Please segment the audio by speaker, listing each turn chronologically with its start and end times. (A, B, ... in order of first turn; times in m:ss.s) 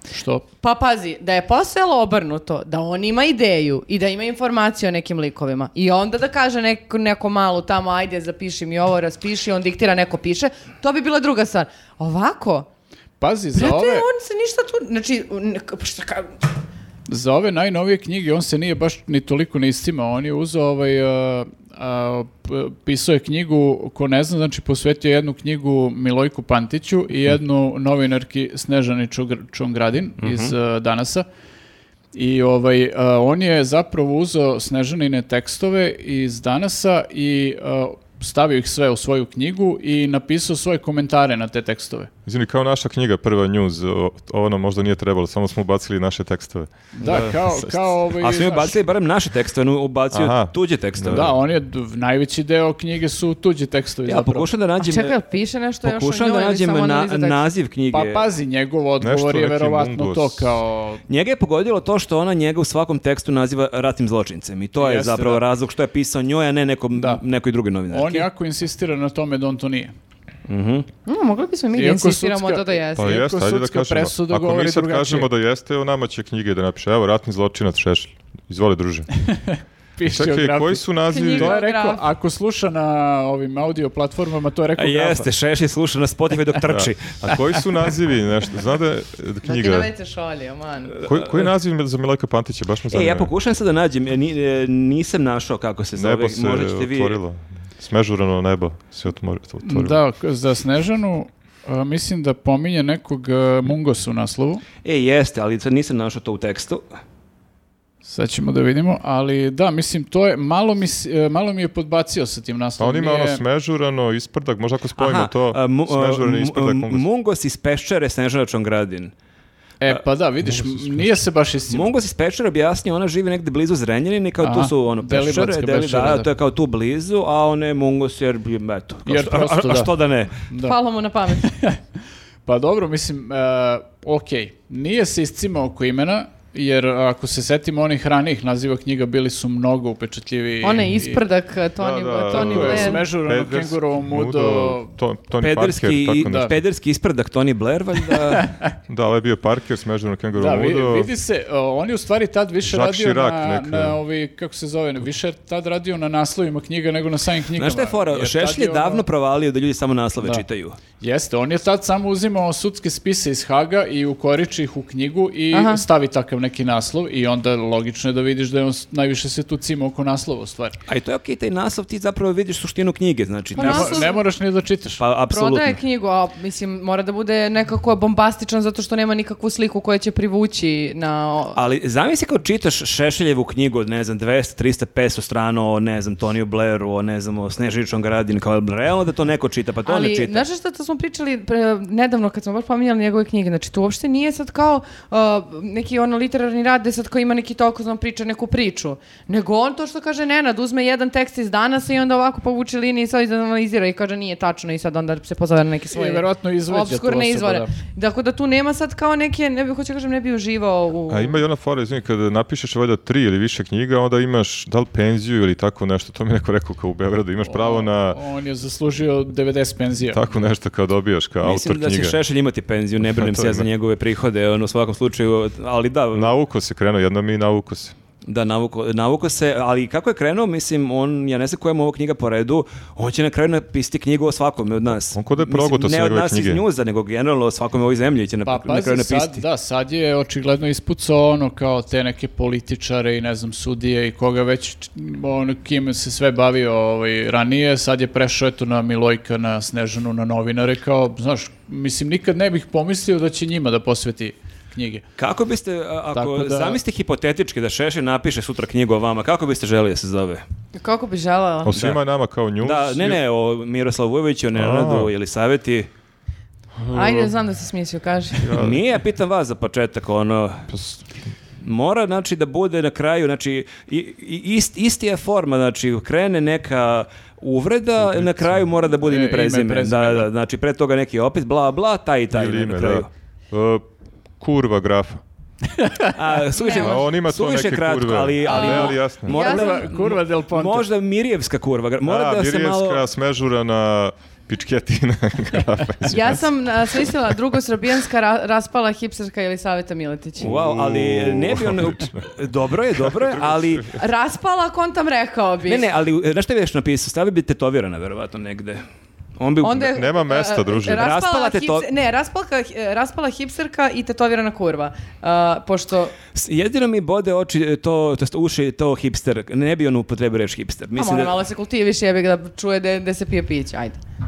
0:00.1-0:00.4 A
0:00.6-0:12.7 B
0:13.2-0:14.0 A
0:13.6-0:16.3 B
0:17.1-0:31.3 A
0:30.2-0:30.5 C
0:32.1-0:42.1 A
0:42.3-0:47.2 D
0:47.0-0:48.8 A
0:47.0-0:51.3 C
0:50.1-0:51.3 D
0:51.1-0:54.5 A
0:54.1-0:55.2 C
0:54.8-0:57.5 B
0:55.8-0:58.2 C
0:57.9-1:01.0 A
0:59.0-1:00.5 D
1:01.1-1:08.3 C
1:04.8-1:05.4 A
1:07.0-1:07.2 A
1:07.9-1:09.9 A
1:10.5-1:10.9 C
1:11.1-1:13.2 B
1:11.8-1:15.3 A
1:13.0-1:19.1 D
1:19.3-1:25.3 A
1:20.1-1:21.6 D
1:21.1-1:22.0 B
1:24.8-1:27.4 C
1:26.7-1:29.9 D
1:29.4-1:31.0 B
1:31.0-1:33.3 D
1:32.9-1:37.2 C
1:36.0-1:40.0 D
1:39.6-1:44.6 A
1:44.8-1:46.8 C
1:48.0-1:53.4 A
1:52.8-1:57.0 D
1:55.0-1:59.1 C
1:59.8-2:01.9 A
2:01.7-2:10.3 C
2:04.4-2:06.3 A
2:09.1-2:10.8 A
2:10.6-2:11.5 B
2:11.4-2:11.8 A
2:12.5-2:21.2 A
2:20.6-2:23.0 B
2:21.8-2:26.6 D
2:22.3-2:24.9 A
2:25.4-2:28.5 C
2:26.2-2:26.5 A
2:28.1-2:28.7 A
2:28.9-2:31.1 D
2:30.4-2:39.0 A
2:32.6-2:34.0 D
2:37.6-2:40.8 C
2:41.0-2:50.8 A
2:45.5-2:45.8 B
2:50.9-2:54.1 C
2:53.6-2:54.2 B
2:53.6-2:55.0 A
2:55.0-2:55.8 C
2:55.3-3:01.6 B
3:01.6-3:10.4 C
3:09.9-3:31.4 B
3:25.9-3:27.7 A
3:31.1-3:38.2 D
3:37.4-3:40.2 A
3:40.1-3:42.2 D
3:41.4-3:46.3 C
3:43.0-3:43.7 D
3:46.1-3:48.0 D
3:48.2-3:59.4 C
3:55.1-3:56.6 D
3:58.4-4:15.0 A
4:15.2-4:20.4 C
4:16.1-4:16.8 A
4:20.8-4:21.8 B
4:21.6-4:23.2 D
4:21.7-4:22.0 C
4:22.6-4:25.9 C
4:24.5-4:25.1 D
4:26.8-4:27.3 D
4:26.9-4:28.6 B
4:28.4-4:28.8 D
4:28.5-4:30.7 C
4:30.7-4:31.0 D
4:31.6-4:43.1 C
4:38.0-4:38.6 D
4:39.0-4:40.3 A
4:42.3-4:43.8 D
4:44.4-4:45.2 D
4:46.2-4:53.0 C
4:46.6-4:47.0 B
4:46.7-4:49.4 D
4:48.4-4:49.9 B
4:49.3-4:50.9 A
4:52.0-4:57.3 D
4:56.1-5:00.5 B
5:00.4-5:03.9 C
5:00.4-5:02.3 D
5:02.9-5:03.9 D
5:03.9-5:05.9 B
5:05.7-5:08.8 C
5:09.4-5:09.9 C
5:09.6-5:16.2 B
5:09.8-5:11.1 D
5:10.9-5:11.9 C
5:16.3-5:21.3 C
5:21.0-5:24.0 B